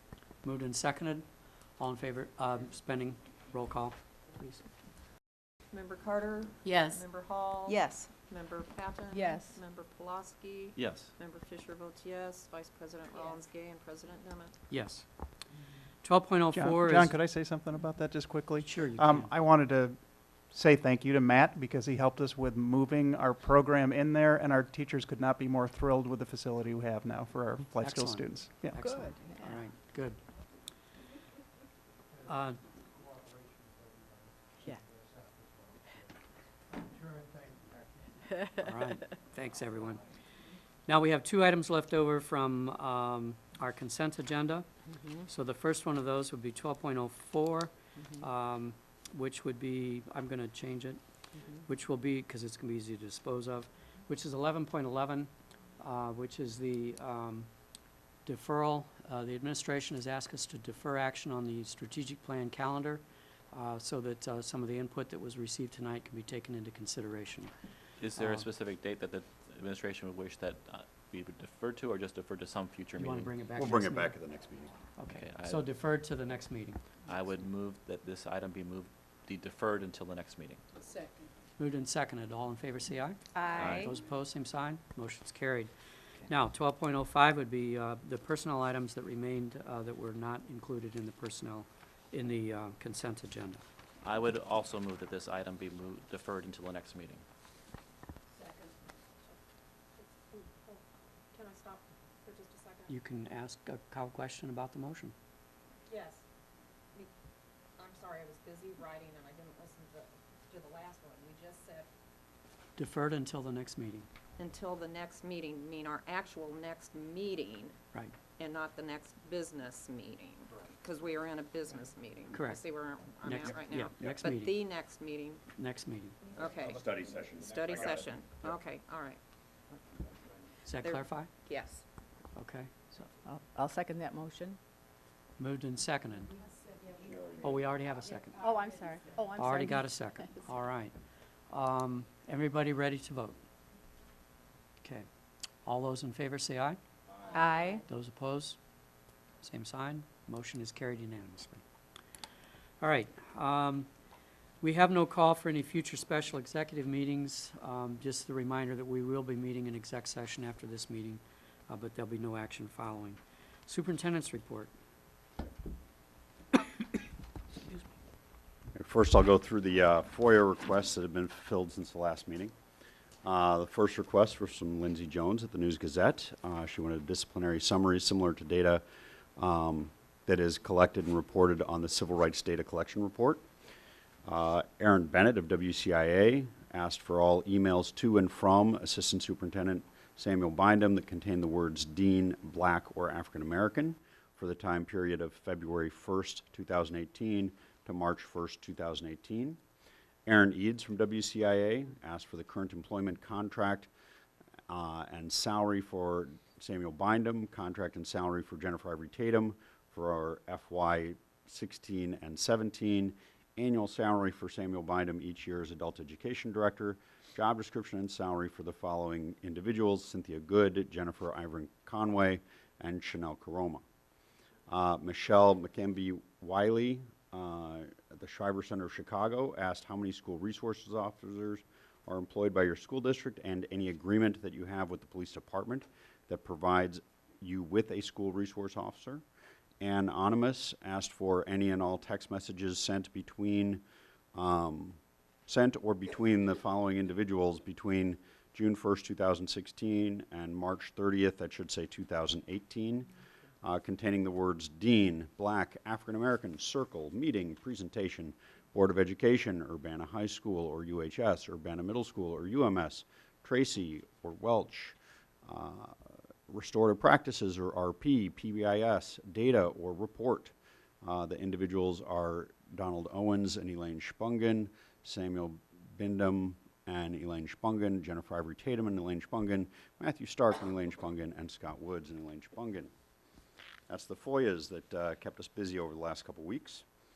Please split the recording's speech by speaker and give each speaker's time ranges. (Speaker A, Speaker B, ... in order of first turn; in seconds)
Speaker A: 0.4-4.6, 14.7-15.1, 16.0-17.1, 18.6-19.3, 27.8-30.2, 32.3-32.6, 38.5-40.0, 40.9-44.6, 45.2-51.0, 51.6-57.5, 58.2-67.5, 68.2-68.5, 73.0-74.2, 75.0-76.8, 81.6-85.7, 86.3-93.6, 102.9-105.1, 112.8-114.1, 122.3-122.6, 123.2-124.6, 125.5-126.2, 130.6-131.3, 132.3-133.1, 135.4-136.3, 137.4-138.4, 139.3-140.9, 141.5-143.3, 145.6-146.8, 147.9-148.6, 149.4-151.6, 152.8-153.9, 154.6-164.7
Speaker B: 5.7-14.6, 100.0-102.9, 105.9-106.2, 107.8-111.9, 114.4-117.7, 118.4-125.4, 126.3-129.2, 130.8-131.8, 147.3-147.8
Speaker C: 6.7-7.0, 7.7-8.1, 9.1-9.5, 28.8-29.5, 45.0-45.2, 83.3-83.8, 133.2-134.6, 138.4-139.8
Speaker D: 10.7-11.1, 68.0-73.3, 75.1-75.7, 77.0-80.6, 83.5-83.9, 94.0-97.2
Speaker E: 16.5-28.9
Speaker F: 73.5-74.7, 126.7-128.0, 168.8-172.5, 173.2-178.8, 179.4-183.4, 184.3-199.6, 200.2-203.9, 204.7-223.8, 224.7-239.2, 239.8-243.8, 244.3-253.1, 253.6-282.9, 283.9-286.8